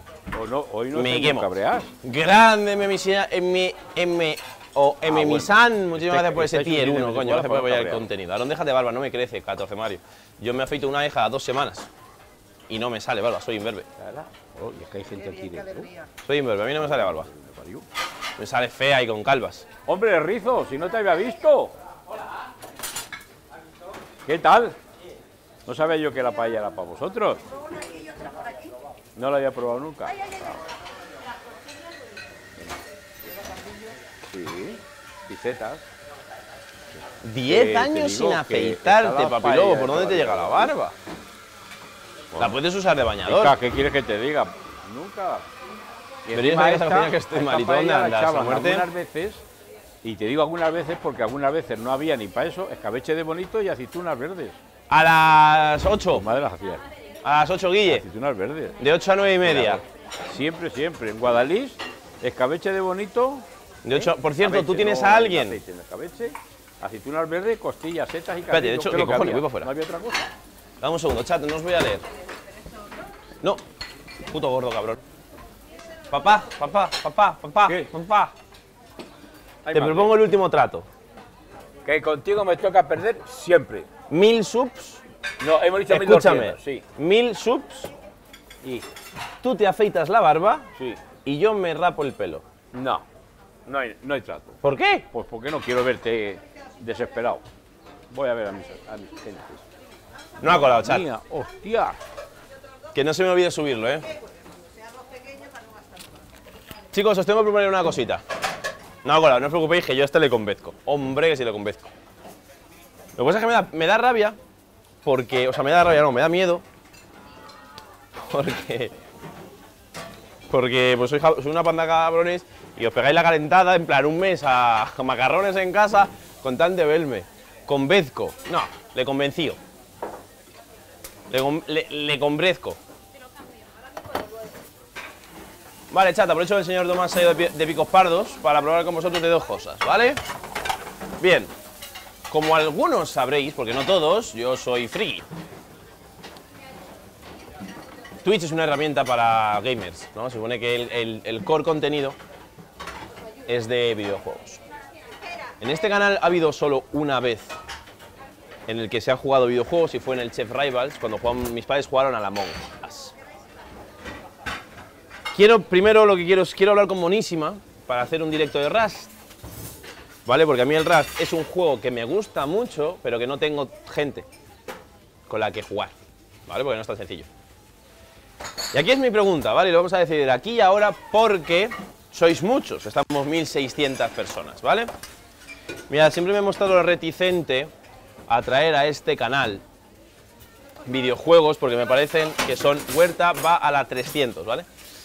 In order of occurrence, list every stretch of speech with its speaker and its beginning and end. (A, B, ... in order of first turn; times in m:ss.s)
0:00.3-0:01.9 A
0:00.9-0:01.5 B
0:02.0-0:11.9 B
0:05.1-0:08.1 A
0:12.7-0:13.9 B
0:14.0-0:16.0 A
0:16.2-0:17.3 B
0:16.8-0:17.8 A
0:18.4-0:19.7 B
0:19.8-0:21.7 A
0:24.3-0:24.8 A
0:25.7-0:27.4 A
0:29.2-0:30.6 A
0:34.3-0:35.8 A
0:37.2-0:41.0 B
0:37.4-0:40.7 A
0:42.4-0:43.6 B
0:43.2-0:45.5 A
0:46.3-0:49.4 A
0:46.3-0:48.9 B
0:50.0-0:54.6 A
0:54.9-0:56.3 B
0:56.1-0:56.8 A
0:57.2-0:58.0 B
0:57.9-0:58.8 A
0:58.8-0:59.8 B
0:59.4-1:10.3 A
1:03.8-1:05.6 B
1:08.5-1:09.7 B
1:10.8-1:12.0 B
1:14.3-1:15.0 B
1:16.1-1:18.3 B
1:17.7-1:17.9 A
1:19.6-1:20.1 A
1:19.7-1:20.8 B
1:21.8-1:23.9 A
1:24.1-1:25.0 B
1:25.4-1:26.8 A
1:25.9-1:27.9 B
1:29.4-1:30.7 B
1:30.8-1:31.0 A
1:31.2-1:32.4 B
1:32.7-1:33.0 A
1:33.7-1:34.6 A
1:34.6-1:35.0 B
1:35.1-1:37.4 A
1:38.1-1:39.6 A
1:40.4-1:41.1 B
1:40.4-1:42.0 A
1:42.9-1:44.1 B
1:46.9-1:48.2 B
1:49.0-1:51.9 B
1:53.2-1:54.4 B
1:55.0-1:56.6 B
1:58.3-1:58.9 B
2:00.5-2:09.6 B
2:11.3-2:12.8 B
2:15.9-2:20.2 B
2:21.2-2:21.5 B
2:22.3-2:25.2 B
2:28.2-2:32.2 B
2:33.5-2:34.6 B
2:35.6-2:37.6 B
2:38.7-2:43.1 B
2:45.3-2:49.1 B
2:50.2-2:54.2 B
2:55.3-2:57.3 B
2:58.7-3:04.9 B
3:05.9-3:07.7 B
3:08.3-3:09.6 B
3:10.8-3:14.7 B